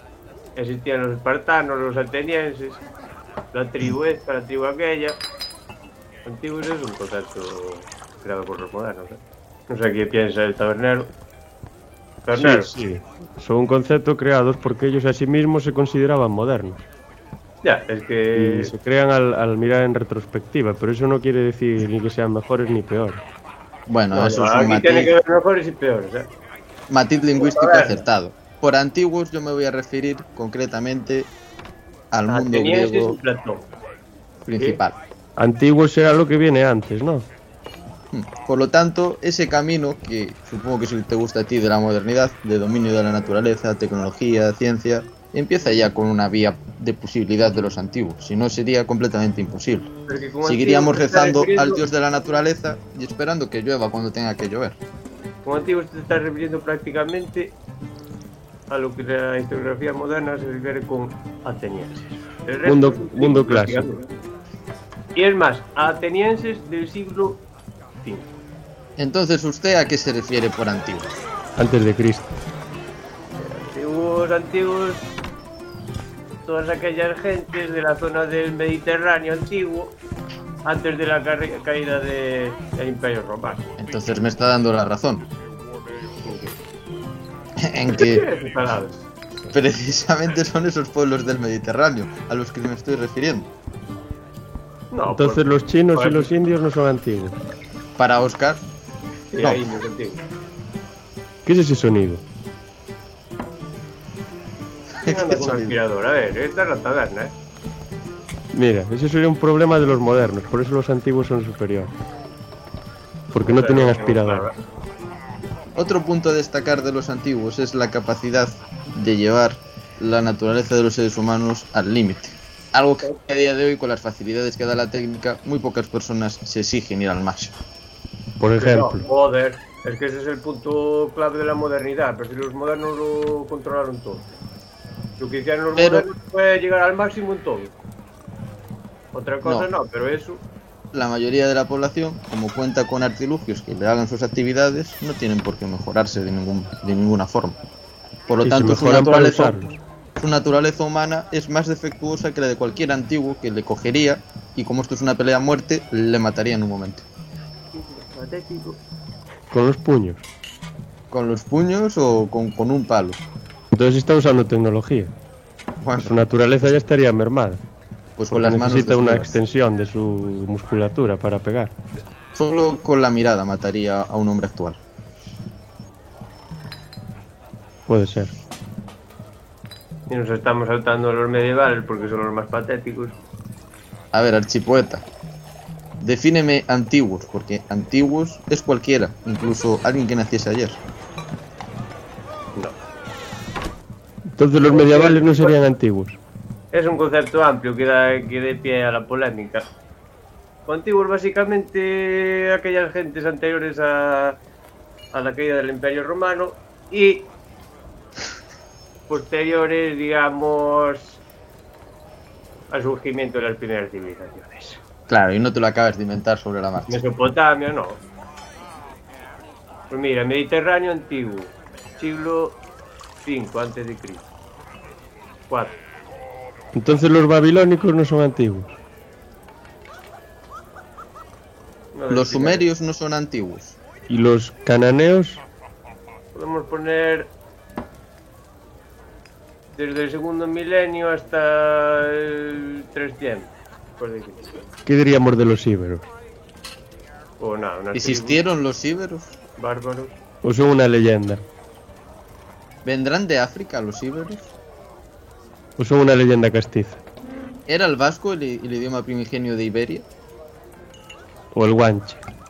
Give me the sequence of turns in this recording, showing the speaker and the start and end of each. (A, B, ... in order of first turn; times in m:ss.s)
0:00.6-0:02.8 A
0:03.5-0:05.2 A
0:06.2-0:11.1 A
0:12.2-0:12.7 A
0:12.4-0:16.8 B
0:17.6-0:18.7 A
0:18.4-0:23.2 B
0:23.9-0:25.2 C
0:24.1-0:26.3 A
0:26.9-0:31.3 C
0:27.3-0:28.0 A
0:32.1-0:33.2 C
0:32.3-0:33.7 A
0:34.5-0:35.0 C
0:34.6-0:34.8 A
0:35.4-0:37.3 B
0:38.1-0:49.9 C
0:50.1-0:51.9 A
0:50.4-0:54.8 C
0:55.4-0:57.6 A
0:58.7-1:04.1 A
1:02.6-1:03.9 B
1:05.2-1:07.5 A
1:08.0-1:08.3 A
1:09.0-1:11.2 C
1:11.6-1:12.4 B
1:13.4-1:15.1 A
1:16.5-1:20.0 A
1:20.6-1:23.8 A
1:23.8-1:25.3 C
1:26.2-1:26.6 A
1:27.6-1:28.3 C
1:27.9-1:29.0 A
1:29.5-1:33.5 C
1:34.9-1:36.3 A
1:35.1-1:37.4 B
1:38.0-1:38.6 C
1:39.3-1:40.2 A
1:41.5-1:42.2 B
1:45.0-1:45.8 C
1:45.0-1:47.4 A
1:48.5-1:51.9 B
1:53.3-1:54.5 B
1:53.4-1:54.6 A
1:55.8-2:07.6 C
2:08.4-2:09.0 B
2:08.6-2:14.4 A
2:15.2-2:17.8 A
2:15.8-2:16.1 C
2:19.1-2:20.4 A
2:20.9-2:27.6 C
2:28.3-2:37.1 C
2:28.4-2:29.7 B
2:37.7-2:38.8 A
2:39.5-2:40.2 B
2:41.1-2:43.2 C
2:43.7-2:45.1 B
2:45.8-2:46.7 C
2:46.0-2:47.6 B
2:48.2-2:49.4 C
2:48.3-2:51.7 B
2:52.4-2:54.8 C
2:57.9-2:58.3 B
3:00.1-3:03.2 A
3:04.1-3:05.1 C
3:06.0-3:10.8 C
3:14.4-3:16.2 B
3:14.6-3:15.6 A
3:16.7-3:19.7 A
3:20.7-3:24.4 A
3:25.1-3:27.3 A
3:29.1-3:31.2 A
3:32.7-3:34.8 A
3:35.1-3:37.1 C
3:36.9-3:38.0 A
3:39.9-3:42.6 A
3:43.2-3:44.3 A
3:45.5-3:45.8 A
3:46.7-3:48.7 B
3:52.0-3:52.6 A
3:52.1-3:53.8 C
3:54.1-3:55.4 B
3:56.3-3:57.3 A
3:59.7-4:04.7 A
4:04.9-4:06.1 B
4:07.4-4:08.4 A
4:07.9-4:09.4 C
4:09.6-4:10.2 A
4:10.4-4:11.4 B
4:12.8-4:14.5 C
4:15.8-4:17.0 B
4:17.7-4:20.1 C
4:21.5-4:22.2 B